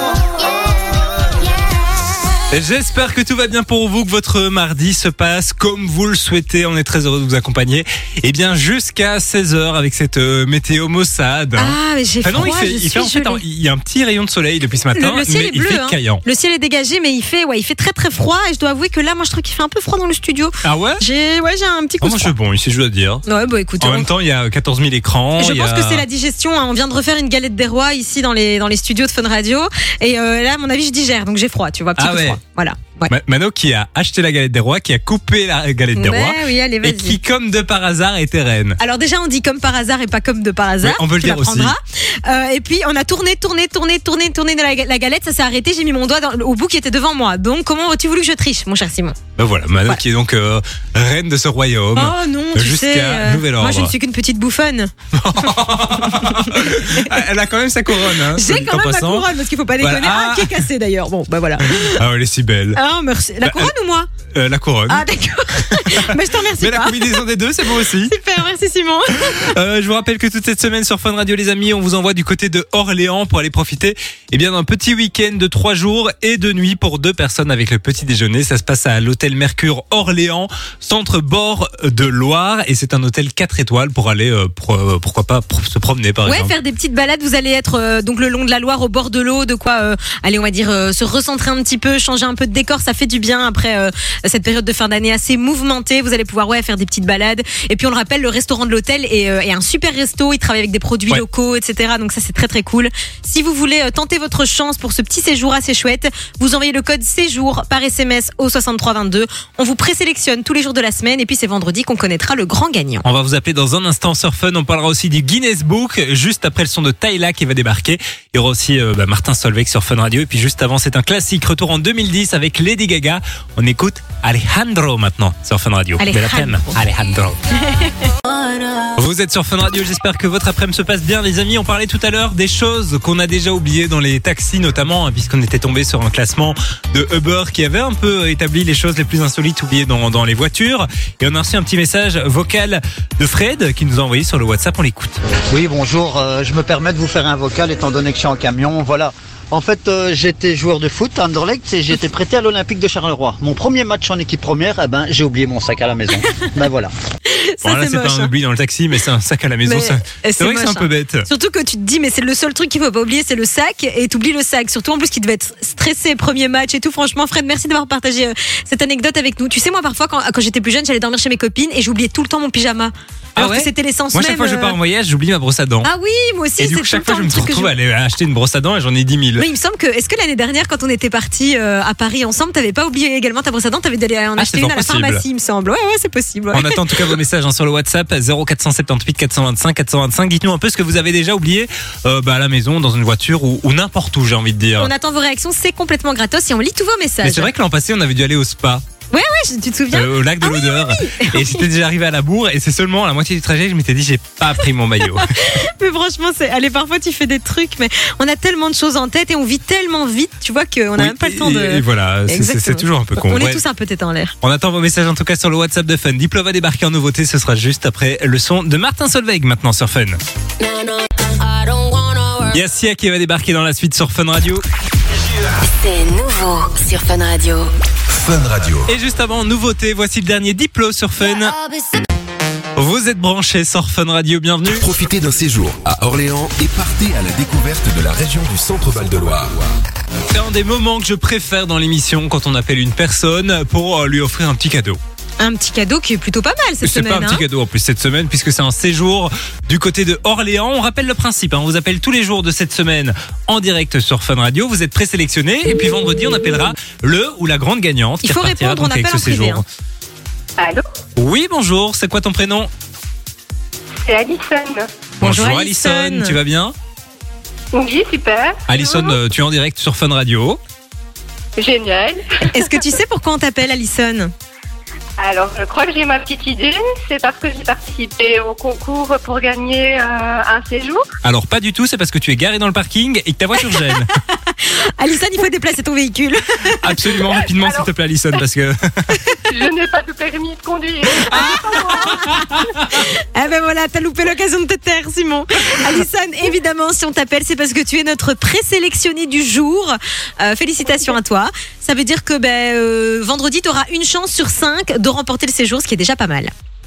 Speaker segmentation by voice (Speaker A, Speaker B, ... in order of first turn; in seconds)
Speaker A: 2.5-16.2, 20.6-21.0, 22.0-23.2, 23.8-26.0, 32.0-32.4, 33.1-38.8, 40.8-41.7, 49.4-53.9, 55.1-59.3, 59.8-60.6, 61.7-62.8, 63.4-63.7, 64.3-65.1, 65.7-68.1, 69.2-86.5, 113.0-127.4, 128.9-145.2, 157.6-161.3, 173.3-175.9, 176.6-179.4, 184.4-185.2, 186.5-194.9, 197.2-198.8, 199.9-205.5, 211.0-213.6, 214.4-220.2, 222.5-224.6, 228.9-231.5, 232.8-234.8, 240.3-245.0, 246.8-259.6, 261.2-262.7, 265.2-266.7, 268.7-270.6, 281.2-284.1, 286.8-289.1, 291.3-292.4
Speaker B: 11.6-13.4, 14.9-22.3, 23.2-24.1, 25.4-33.1, 36.0-37.2, 38.8-49.1, 51.9-54.9, 56.0-57.1, 58.3-62.0, 62.7-64.1, 64.9-67.2, 67.8-69.5, 86.2-113.0, 126.0-126.8, 127.6-128.1, 157.2-158.3, 159.6-174.8, 175.8-177.7, 179.4-187.1, 194.8-197.5, 199.1-201.6, 205.1-214.3, 245.4-247.4, 258.2-259.6, 265.2-266.4, 272.5-274.3, 283.6-287.1, 291.3-306.5
Speaker C: 145.5-156.9
Speaker D: 220.6-222.6, 225.6-227.7, 231.2-232.1
Speaker E: 228.1-228.9, 234.7-239.7
Speaker F: 260.6-260.8, 264.0-264.9, 267.7-269.1, 271.6-272.7, 275.2-281.1, 287.6-287.8, 289.5-292.6